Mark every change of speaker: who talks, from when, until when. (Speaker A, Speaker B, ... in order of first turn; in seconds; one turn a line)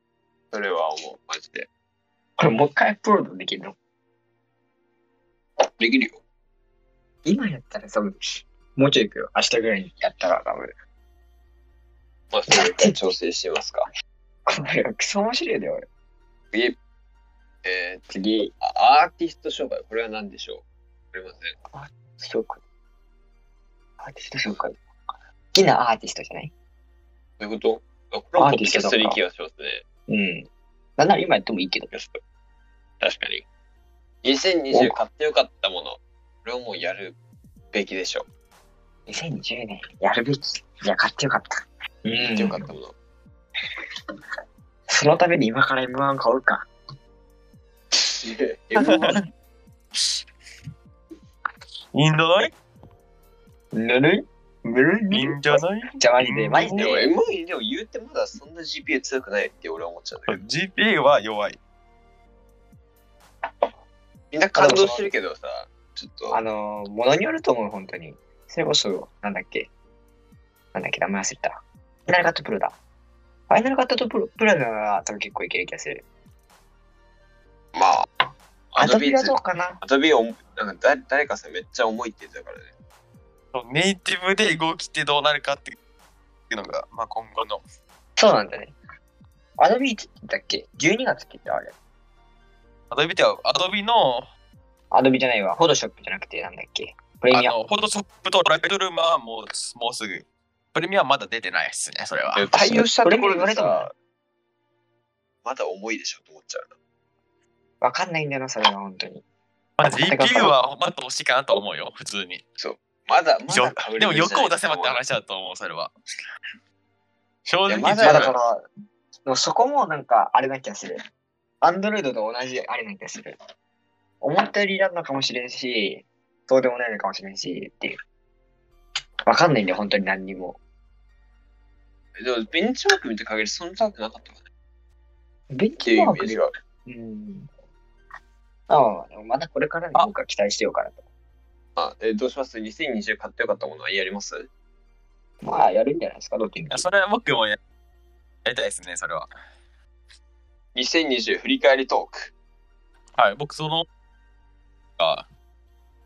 Speaker A: 0.5-1.7
Speaker B: 2.4-3.8
Speaker A: 5.8-6.2
Speaker B: 7.2-10.7
Speaker A: 12.3-13.9
Speaker B: 12.5-13.0
Speaker B: 14.5-15.9
Speaker A: 16.5-16.8
Speaker A: 17.6-18.0
Speaker B: 18.1-18.5
Speaker A: 18.6-21.6
Speaker B: 21.7-22.6
Speaker B: 24.0-24.8
Speaker B: 25.5-26.5
Speaker A: 27.4-29.8
Speaker B: 28.4-29.2
Speaker B: 30.1-31.9
Speaker A: 31.9-32.2
Speaker A: 33.0-33.5
Speaker A: 34.2-37.2
Speaker B: 34.7-35.0
Speaker A: 37.7-38.3
Speaker B: 39.1-42.7
Speaker A: 42.3-42.9
Speaker B: 44.9-46.7
Speaker A: 47.9-49.2
Speaker C: 51.9-52.5
Speaker B: 53.7-57.1
Speaker C: 55.1-57.0
Speaker A: 56.8-60.4
Speaker C: 60.3-61.6
Speaker A: 64.3-66.4
Speaker B: 64.6-65.1
Speaker B: 66.3-69.7
Speaker B: 70.7-72.8
Speaker B: 73.5-76.0
Speaker A: 77.7-78.1
Speaker A: 78.7-82.7
Speaker B: 78.8-79.8
Speaker C: 83.5-85.8
Speaker C: 86.5-87.6
Speaker B: 88.2-88.8
Speaker B: 89.6-91.7
Speaker C: 92.9-94.3
Speaker B: 94.9-97.6
Speaker C: 97.3-102.5
Speaker A: 102.3-103.9
Speaker B: 103.0-103.9
Speaker A: 105.4-106.7
Speaker B: 107.8-109.2
Speaker C: 109.8-112.4
Speaker B: 109.9-110.5
Speaker A: 112.6-115.0
Speaker C: 113.5-115.9
Speaker C: 117.5-118.3
Speaker A: 117.7-118.3
Speaker B: 118.0-118.6
Speaker B: 119.3-121.0
Speaker B: 121.6-123.4
Speaker B: 124.2-128.0
Speaker B: 129.3-130.6
Speaker A: 132.2-134.4
Speaker B: 135.5-137.5
Speaker A: 135.8-136.5
Speaker B: 138.7-141.0
Speaker A: 141.8-144.5
Speaker B: 145.4-146.8
Speaker C: 146.7-147.6
Speaker C: 148.4-149.3
Speaker A: 150.8-152.3
Speaker C: 153.2-153.9
Speaker C: 155.0-155.2